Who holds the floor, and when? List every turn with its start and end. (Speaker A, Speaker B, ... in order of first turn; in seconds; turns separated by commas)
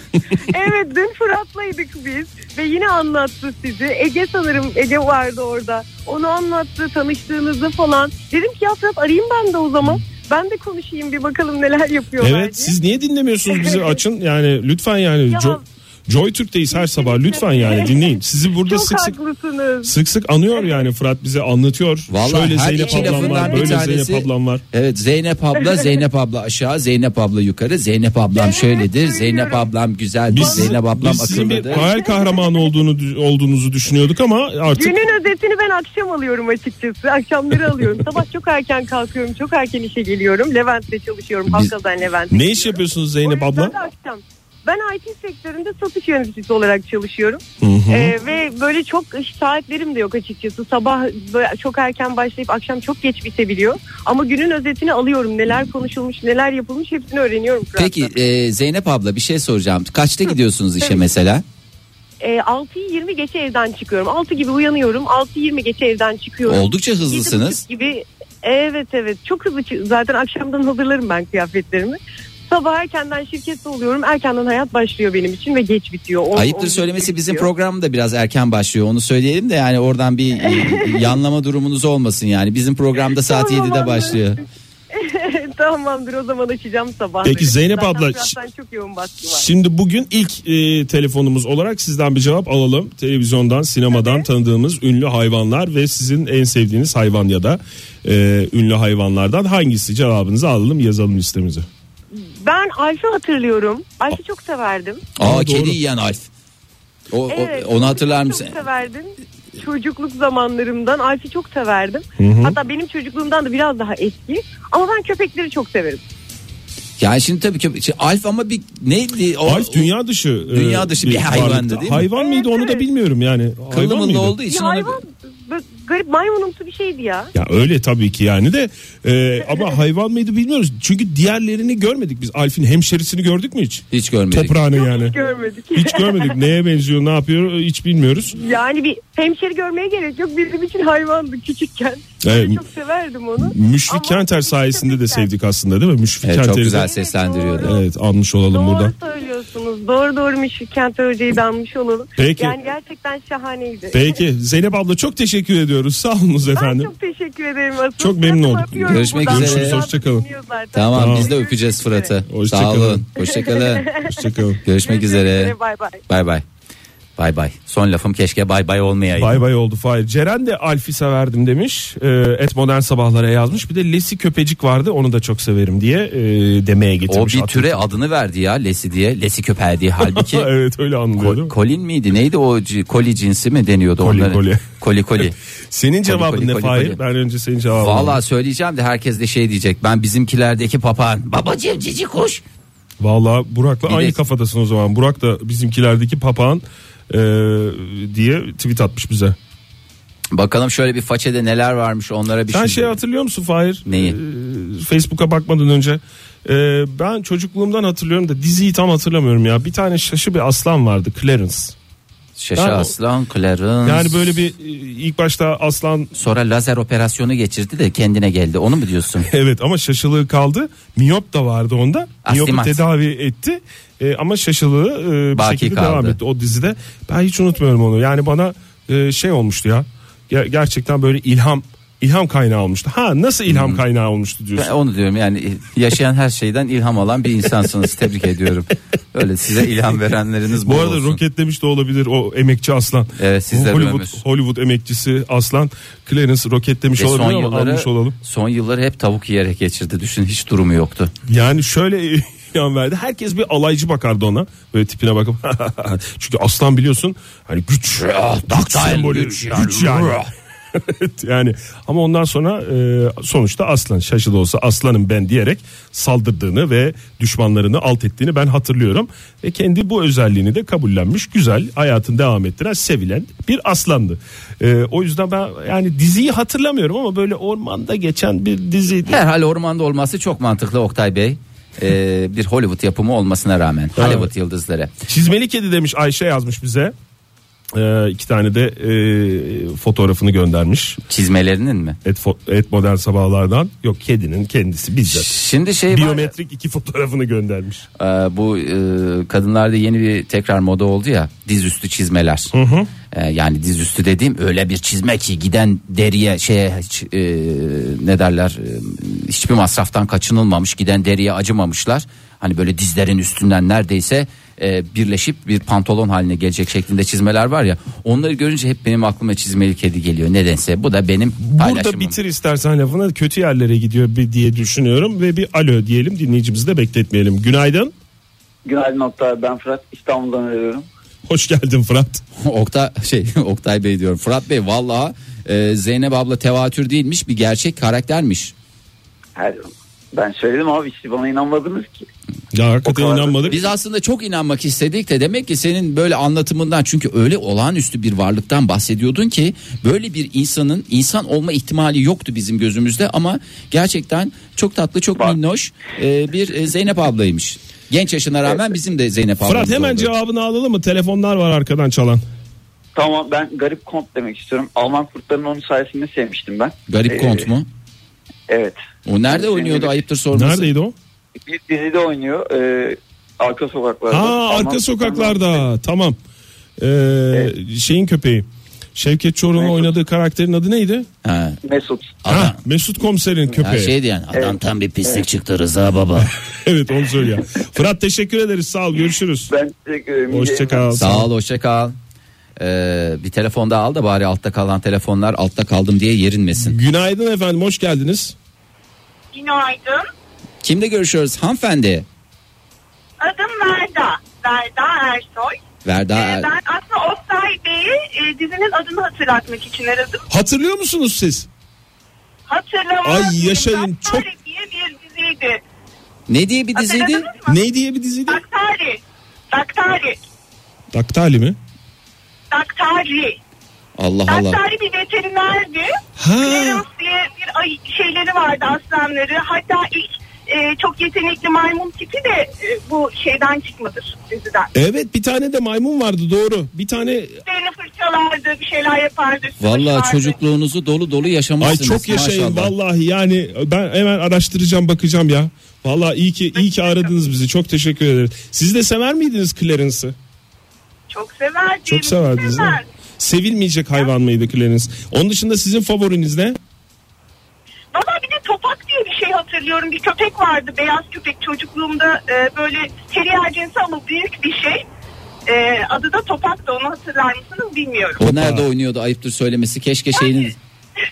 Speaker A: 0.3-12.8, Speaker B: 12.2-19.1, Speaker A: 13.5-14.0, Speaker A: 15.3-15.6, Speaker A: 16.7-19.9, Speaker B: 19.8-24.6, Speaker C: 22.1-31.9, Speaker A: 22.8-23.7, Speaker A: 28.3-29.7, Speaker B: 30.3-35.0, Speaker A: 30.4-30.7, Speaker A: 31.7-32.4, Speaker A: 34.7-58.1, Speaker B: 42.3-43.7, Speaker B: 47.6-48.1, Speaker C: 57.8-61.4, Speaker A: 62.2-77.5, Speaker C: 66.5-67.6, Speaker C: 76.3-84.4, Speaker A: 80.5-81.0, Speaker A: 83.2-84.2, Speaker A: 84.9-89.5, Speaker B: 87.2-88.3, Speaker B: 89.2-101.7, Speaker A: 93.9-94.2, Speaker A: 102.1-105.0, Speaker C: 105.2-106.3, Speaker B: 105.2-105.8, Speaker C: 107.1-108.5, Speaker A: 107.3-116.0, Speaker B: 112.2-112.5, Speaker C: 117.0-119.9, Speaker B: 119.4-124.3, Speaker C: 120.5-122.1, Speaker A: 122.1-122.8, Speaker C: 123.7-125.0, Speaker A: 124.5-127.3, Speaker B: 127.3-135.2, Speaker C: 133.9-134.6, Speaker A: 134.7-136.4, Speaker B: 135.7-138.3, Speaker A: 138.3-145.3, Speaker B: 142.2-142.6, Speaker B: 143.4-146.9, Speaker C: 146.2-147.7, Speaker A: 146.7-147.8, Speaker B: 147.6-148.9, Speaker A: 148.5-154.2, Speaker B: 152.2-152.6, Speaker B: 153.9-156.9, Speaker A: 156.5-162.1, Speaker B: 158.0-160.2, Speaker C: 158.9-159.8, Speaker C: 160.7-163.9, Speaker B: 160.9-161.3, Speaker B: 162.3-163.1, Speaker A: 163.2-166.0, Speaker B: 164.1-164.6, Speaker C: 164.6-165.5, Speaker C: 166.1-166.4, Speaker C: 167.2-169.4, Speaker B: 169.2-177.9, Speaker C: 177.1-180.5, Speaker B: 180.0-181.5, Speaker C: 181.2-185.3, Speaker B: 184.0-184.7, Speaker B: 185.2-188.2, Speaker C: 186.1-187.0, Speaker C: 187.7-192.4, Speaker B: 193.0-199.3, Speaker C: 193.8-194.2, Speaker C: 200.3-203.0, Speaker B: 202.5-211.7, Speaker C: 203.8-204.2, Speaker C: 212.4-214.3, Speaker B: 212.6-212.9, Speaker B: 213.8-216.1, Speaker C: 216.1-219.3, Speaker B: 219.2-234.7, Speaker C: 222.2-222.8, Speaker C: 225.3-226.2, Speaker C: 233.5-233.8, Speaker C: 234.6-241.2, Speaker B: 240.6-248.1, Speaker C: 243.2-244.2, Speaker C: 247.0-251.1, Speaker B: 251.3-279.2, Speaker C: 258.0-260.3, Speaker C: 279.1-284.9, Speaker B: 284.0-284.3, Speaker B: 285.1-286.9, Speaker B: 287.7-291.0, Speaker C: 291.1-292.0, Speaker B: 292.0-295.3, Speaker C: 295.1-296.3, Speaker B: 295.9-297.8, Speaker C: 298.0-302.5, Speaker B: 302.5-302.9, Speaker C: 303.1-322.2, Speaker B: 321.4-327.9, Speaker D: 328.6-330.9, Speaker B: 331.3-332.2, Speaker C: 332.4-338.5, Speaker D: 339.4-342.0, Speaker B: 342.5-343.6, Speaker D: 342.8-343.6, Speaker C: 343.5-360.1, Speaker B: 359.4-362.2, Speaker D: 362.9-367.4, Speaker C: 366.9-367.7, Speaker D: 368.5-369.9, Speaker C: 369.1-370.7, Speaker B: 370.3-370.9, Speaker D: 371.4-375.6, Speaker B: 374.1-376.2, Speaker B: 376.8-381.1, Speaker D: 379.6-379.9, Speaker C: 381.2-381.6, Speaker D: 381.6-382.2, Speaker C: 382.2-382.6, Speaker B: 382.3-383.9, Speaker C: 383.6-386.3, Speaker B: 386.6-389.5, Speaker D: 389.5-391.0, Speaker B: 390.3-391.3, Speaker C: 390.9-391.9, Speaker C: 392.6-396.8, Speaker B: 396.6-398.4, Speaker E: 399.3-400.1, Speaker C: 400.6-402.1, Speaker E: 403.2-405.6, Speaker C: 405.8-406.5, Speaker E: 406.1-410.2, Speaker B: 410.3-411.5, Speaker E: 412.5-415.6, Speaker B: 413.0-414.3, Speaker C: 416.3-417.3, Speaker E: 416.7-417.6, Speaker B: 417.5-418.4, Speaker E: 418.3-419.0, Speaker E: 419.5-420.2, Speaker B: 420.9-421.6, Speaker E: 422.5-423.4, Speaker C: 424.0-424.6, Speaker E: 424.3-434.7, Speaker B: 426.2-426.8, Speaker B: 434.7-437.4, Speaker E: 437.4-440.4, Speaker C: 439.6-442.7, Speaker B: 441.6-450.1, Speaker E: 446.5-447.1, Speaker E: 451.1-452.9, Speaker B: 451.9-456.6, Speaker E: 457.9-464.8, Speaker E: 465.5-468.2, Speaker B: 468.2-468.6, Speaker C: 468.2-470.6, Speaker E: 470.1-470.5